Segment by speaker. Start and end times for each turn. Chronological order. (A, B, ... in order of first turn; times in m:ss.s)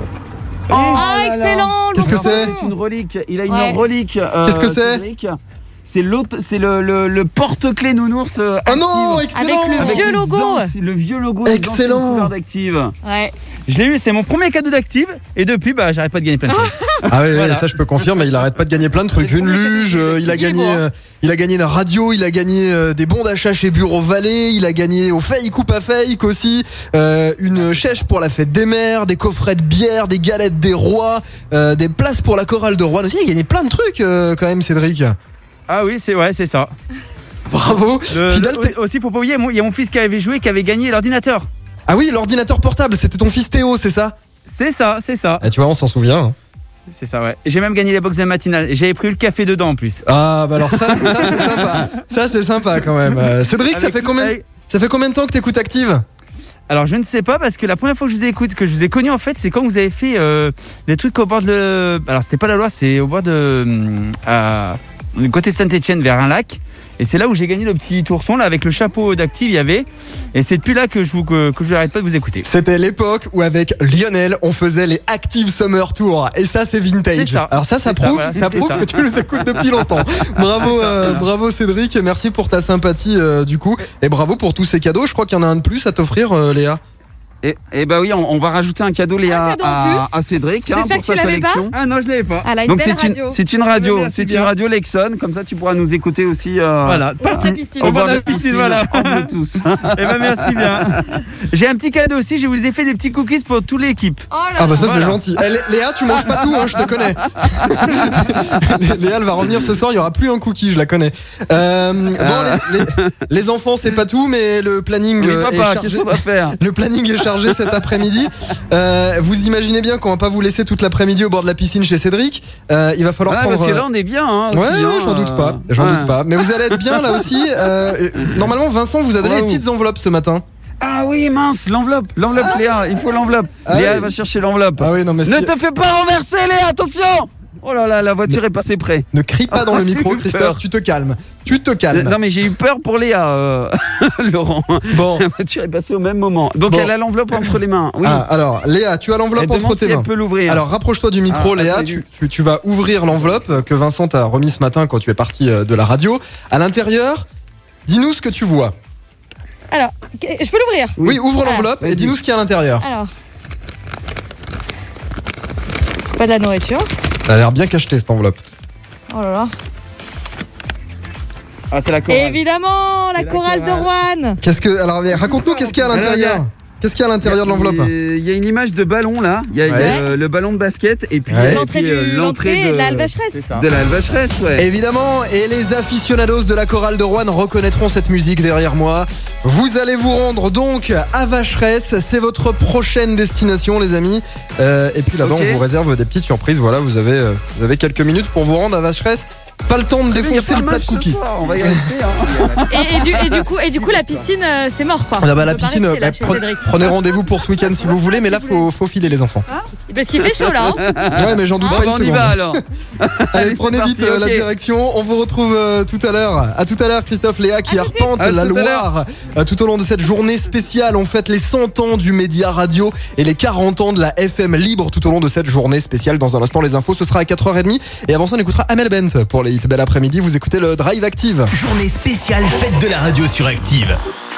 0:00.7-0:01.1 A
0:00.7-0:12.9 B
0:00.8-0:02.7 C
0:01.9-0:02.5 D
0:03.5-0:03.8 C
0:04.4-0:05.0 D
0:08.6-0:10.1 D
0:09.3-0:10.7 C
0:11.4-0:12.3 D
0:13.0-0:13.3 C
0:13.7-0:17.8 A
0:16.5-0:17.1 C
0:17.1-0:35.1 D
0:19.2-0:20.3 A
0:20.3-0:20.8 C
0:35.7-0:36.7 A
0:37.5-0:38.7 D
0:38.1-0:41.5 A
0:41.9-0:44.1 D
0:44.5-0:45.4 A
0:45.4-0:46.3 D
0:46.9-0:50.0 A
0:50.0-0:56.0 D
0:50.6-0:51.8 A
0:53.7-0:54.4 A
0:56.7-1:12.4 A
1:12.4-1:26.8 D
1:17.1-1:19.5 A
1:20.6-1:21.3 A
1:27.4-1:31.7 B
1:29.2-1:30.1 C
1:30.7-1:31.7 C
1:31.7-1:32.5 A
1:32.4-1:33.4 C
1:32.6-1:40.9 B
1:33.7-1:34.5 A
1:36.8-1:39.3 A
1:37.2-1:38.0 C
1:39.9-1:44.3 A
1:44.3-1:45.0 C
1:44.6-2:03.8 D
1:44.8-1:45.2 A
1:47.4-1:48.1 B
1:52.2-1:53.1 B
1:55.2-1:56.6 B
2:03.2-2:06.2 B
2:04.5-2:10.4 D
2:06.7-2:07.3 B
2:09.2-2:09.6 B
2:10.8-2:20.6 B
2:13.6-2:14.1 D
2:14.8-2:15.5 D
2:19.1-2:22.2 D
2:21.9-2:28.2 B
2:24.9-2:25.2 D
2:26.7-2:37.2 D
2:29.4-2:30.6 B
2:31.3-2:32.0 B
2:37.8-2:38.8 D
2:39.7-2:41.7 C
2:41.0-2:42.2 B
2:41.0-2:42.8 D
2:42.8-2:43.1 C
2:46.0-2:46.9 C
2:47.2-2:48.4 D
2:49.1-2:49.5 C
2:51.7-2:52.4 A
2:52.1-2:54.4 C
2:53.2-2:53.9 A
2:54.4-2:57.9 D
2:55.1-2:56.4 A
2:57.2-3:04.7 B
2:59.6-3:00.0 D
2:59.8-3:00.1 C
3:01.3-3:01.6 D
3:01.5-3:03.5 C
3:03.3-3:03.7 A
3:04.6-3:21.8 D
3:15.2-3:15.6 B
3:20.1-3:23.4 B
3:22.7-3:28.7 C
3:23.8-3:24.2 A
3:25.2-3:29.4 D
3:29.9-3:30.9 C
3:30.2-3:34.5 B
3:31.0-3:32.6 D
3:33.3-3:51.5 D
3:37.6-3:38.1 C
3:38.2-3:38.9 B
3:51.5-3:54.0 E